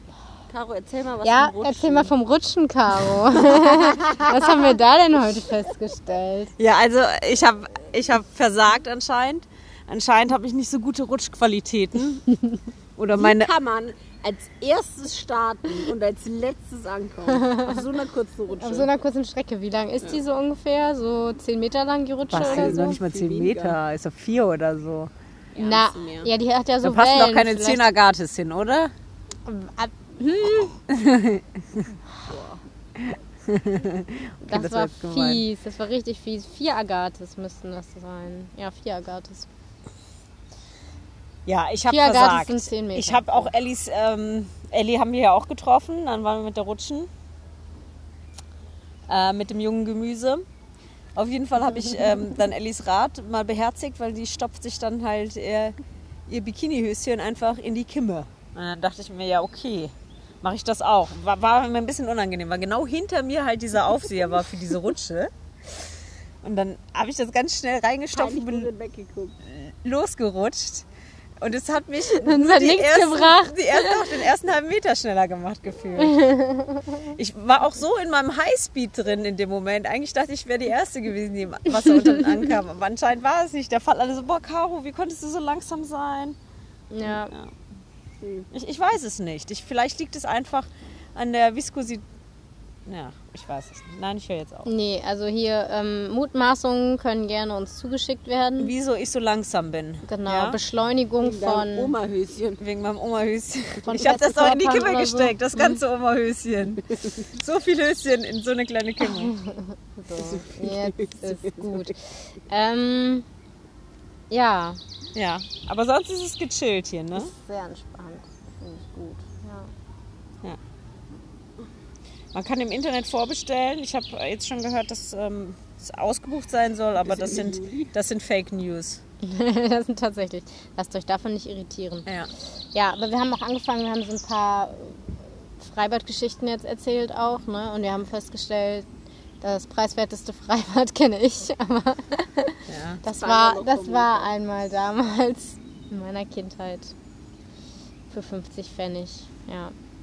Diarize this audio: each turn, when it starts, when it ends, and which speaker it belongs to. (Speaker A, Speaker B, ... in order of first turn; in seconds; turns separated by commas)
Speaker A: 0.5-2.1, Speaker B: 1.2-6.5, Speaker A: 3.7-4.4, Speaker C: 6.6-12.3, Speaker C: 13.0-13.5, Speaker A: 13.1-18.9, Speaker B: 17.3-17.8, Speaker B: 18.6-23.0, Speaker C: 22.3-25.1, Speaker A: 22.4-23.8, Speaker A: 25.5-26.3, Speaker B: 25.6-27.8, Speaker C: 26.8-28.9, Speaker B: 29.4-30.8, Speaker C: 30.9-31.9, Speaker A: 32.3-32.6, Speaker C: 33.0-35.4, Speaker B: 34.5-39.5, Speaker C: 41.5-47.1, Speaker B: 41.9-43.5, Speaker C: 49.1-50.4, Speaker C: 51.1-55.8, Speaker C: 56.3-65.3, Speaker C: 66.4-68.7, Speaker A: 68.1-69.4, Speaker C: 69.4-70.9, Speaker C: 71.4-76.2, Speaker B: 72.0-74.1, Speaker B: 76.0-77.1, Speaker C: 77.1-86.4, Speaker B: 86.9-87.3, Speaker C: 87.1-87.5, Speaker C: 88.5-92.0, Speaker C: 92.9-94.7, Speaker B: 94.7-98.7, Speaker C: 98.6-100.6, Speaker B: 100.1-102.0, Speaker A: 101.2-102.6, Speaker C: 102.6-109.3, Speaker B: 103.8-105.8, Speaker B: 109.1-113.3, Speaker A: 110.1-111.9, Speaker B: 114.3-114.8, Speaker C: 115.1-117.3, Speaker B: 117.1-119.7, Speaker C: 122.3-129.0, Speaker A: 127.0-127.9, Speaker B: 129.2-132.1, Speaker B: 132.7-138.9, Speaker B: 139.4-146.9, Speaker C: 142.7-143.0, Speaker A: 143.1-144.3, Speaker B: 148.1-149.7